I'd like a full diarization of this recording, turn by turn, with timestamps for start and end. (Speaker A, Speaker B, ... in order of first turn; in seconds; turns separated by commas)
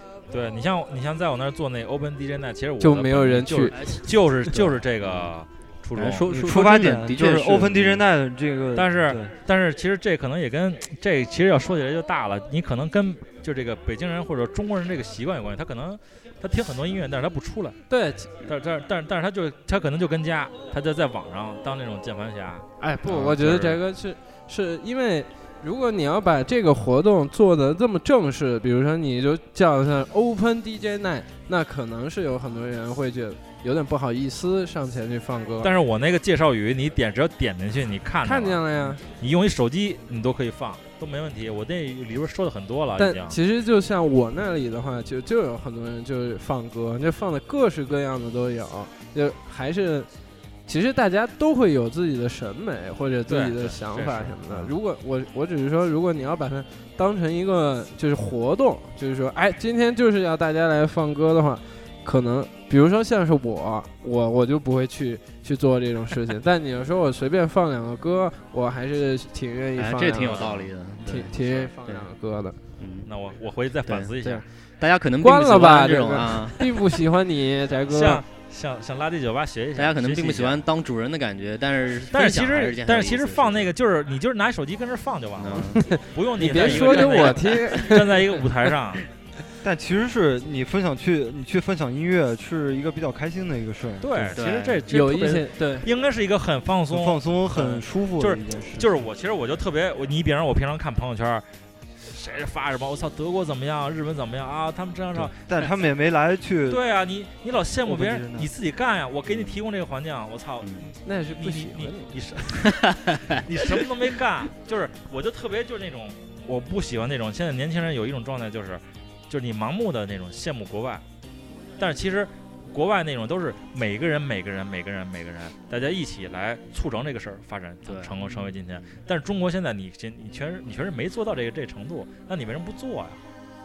Speaker A: 0.3-6.3, Speaker B: 2.8-3.8, Speaker C: 3.7-5.3, Speaker C: 6.0-8.0, Speaker D: 6.3-9.3, Speaker A: 8.8-17.8, Speaker B: 17.9-18.3, Speaker A: 18.4-23.8, Speaker B: 22.8-35.7, Speaker A: 35.6-43.4, Speaker B: 38.2-39.0, Speaker B: 43.0-50.1, Speaker B: 50.7-70.5, Speaker A: 53.3-54.7, Speaker C: 69.8-72.1, Speaker A: 70.2-70.7, Speaker B: 71.0-72.6, Speaker C: 72.8-73.1, Speaker A: 73.0-74.5, Speaker C: 73.9-74.1, Speaker C: 74.8-76.7, Speaker B: 75.2-78.2, Speaker A: 77.9-80.7, Speaker C: 79.8-83.7, Speaker A: 82.1-89.1, Speaker C: 85.4-85.8, Speaker B: 85.8-88.3, Speaker C: 86.5-87.8, Speaker D: 89.6-94.4, Speaker A: 94.0-101.5, Speaker C: 94.3-94.9, Speaker B: 94.9-95.9, Speaker D: 96.9-99.0, Speaker A: 102.0-105.7, Speaker D: 105.1-106.8, Speaker A: 106.7-121.0, Speaker D: 107.8-108.5, Speaker C: 109.3-109.6, Speaker C: 110.6-110.9, Speaker B: 111.0-112.4, Speaker C: 112.8-113.4, Speaker A: 121.8-133.2, Speaker C: 127.9-128.9